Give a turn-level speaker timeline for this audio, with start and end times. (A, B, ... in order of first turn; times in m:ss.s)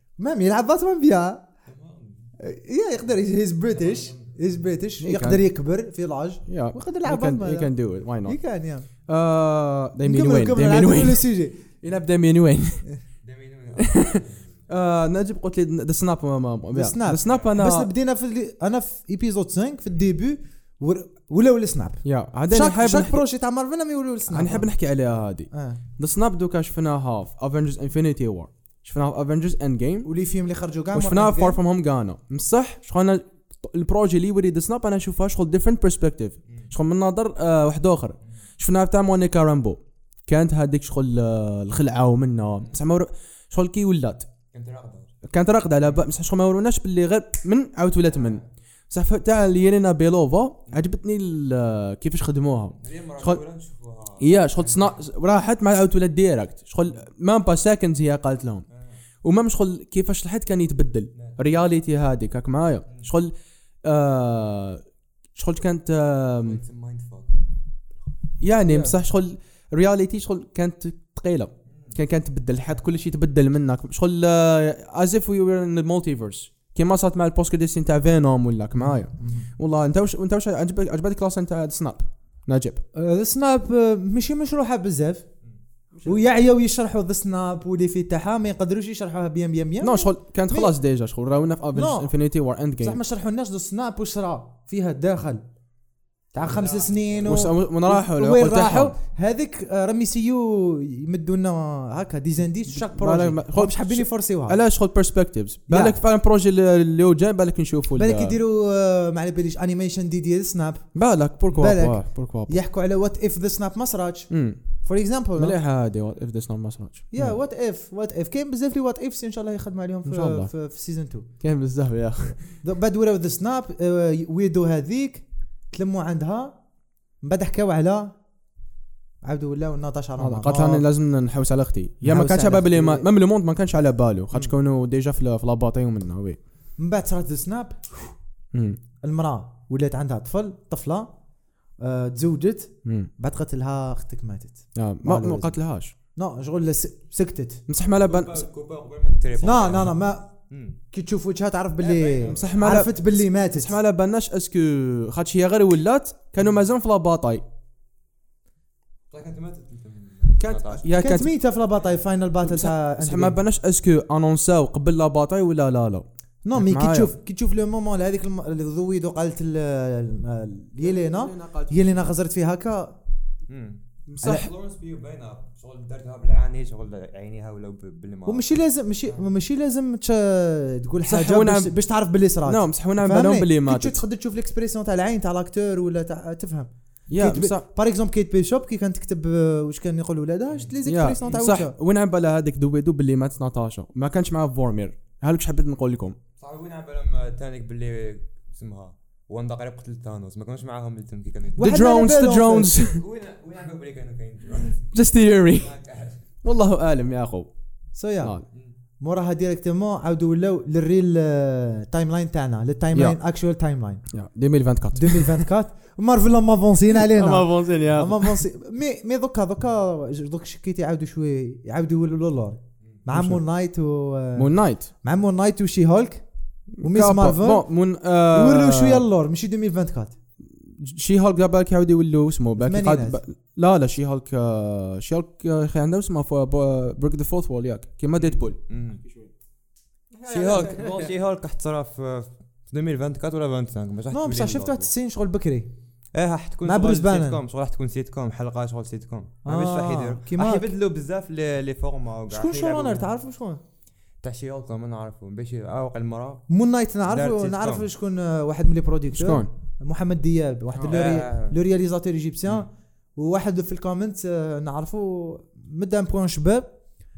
0:00.2-0:01.4 A
0:01.7-0:02.3 B
0:02.4-0:08.9 A
0:03.7-0:04.6 B
0:05.0-0:05.4 C
0:06.5-0:08.4 C
0:09.1-0:12.8 C
0:10.0-0:11.7 A
0:13.2-0:14.6 B
0:13.8-0:17.9 C
0:16.7-0:24.7 A
0:17.2-0:17.6 B
0:22.0-0:23.2 C
0:24.3-0:30.1 C
0:25.5-0:25.8 A
0:30.0-0:31.6 A
0:30.9-0:44.3 C
0:44.5-0:45.1 B
0:45.2-0:53.4 C
0:48.1-0:48.5 B
0:52.8-0:55.0 B
0:54.2-0:58.6 C
0:58.7-0:59.0 B
0:59.2-1:04.8 C
1:01.1-1:01.4 B
1:05.4-1:06.6 C
1:06.4-1:07.4 B
1:08.4-1:22.8 C
1:08.7-1:08.9 A
1:11.7-1:12.0 B
1:18.8-1:19.5 A
1:22.9-1:25.2 A
1:25.9-1:26.2 C
1:26.0-1:30.7 A
1:29.8-1:33.0 C
1:31.7-1:32.1 A
1:32.8-1:35.4 A
1:36.3-1:44.6 A
1:36.4-1:37.5 B
1:37.2-1:39.0 C
1:42.7-1:48.4 C
1:45.7-1:46.0 A
1:47.9-1:50.9 A
1:50.9-1:52.6 C
1:51.5-1:54.3 A
1:54.3-1:54.6 C
1:54.8-1:55.6 A
1:55.4-1:57.4 C
1:57.1-2:01.3 A
2:00.0-2:00.5 C
2:01.4-2:02.4 C
2:02.6-2:06.6 A
2:07.2-2:08.1 A
2:09.2-2:10.8 A
2:10.2-2:16.4 C
2:12.0-2:13.0 A
2:16.8-2:18.1 A
2:18.5-2:18.8 C
2:19.0-2:21.2 A
2:21.8-2:25.6 A
2:22.8-2:23.1 C
2:24.7-2:25.9 C
2:26.1-2:27.6 A
2:27.7-2:28.5 C
2:27.8-2:30.8 B
2:29.4-2:30.3 A
2:30.9-2:33.7 A
2:31.8-2:32.9 B
2:32.3-2:37.4 C
2:39.1-2:40.9 B
2:40.4-2:41.3 C
2:41.0-2:43.4 A
2:42.4-2:47.1 C
2:46.4-2:53.0 A
2:50.8-2:52.1 C
2:53.5-2:59.3 B
2:54.1-2:54.5 C
2:54.2-2:54.5 A
2:58.3-3:11.7 A
3:01.0-3:01.7 C
3:02.4-3:04.0 C
3:07.1-3:07.6 C
3:10.8-3:16.2 C
3:16.4-3:21.7 B
3:21.6-3:22.8 A
3:21.6-3:23.0 C
3:22.7-3:24.9 B
3:24.9-3:25.7 C
3:25.5-3:26.2 B
3:26.4-3:27.5 C
3:27.9-3:28.4 A
3:29.0-3:34.0 A
3:32.9-3:33.2 C
3:34.1-3:35.4 C
3:34.9-3:46.2 A
3:36.9-3:38.4 C
3:43.1-3:43.4 C
3:44.3-3:44.9 C
3:46.8-3:49.0 C
3:46.8-3:47.7 A
3:48.3-3:50.2 A
3:50.4-3:59.3 C
3:52.6-3:53.2 A
3:58.1-3:59.0 B
4:00.2-4:01.1 C
4:00.3-4:04.9 B
4:00.3-4:00.8 A
4:04.1-4:05.7 A
4:06.1-4:13.1 B
4:06.6-4:07.4 A
4:09.4-4:10.7 A
4:12.3-4:13.6 A
4:14.2-4:16.4 B
4:16.5-4:26.7 A
4:17.1-4:17.9 B
4:19.1-4:19.5 C
4:20.8-4:21.6 B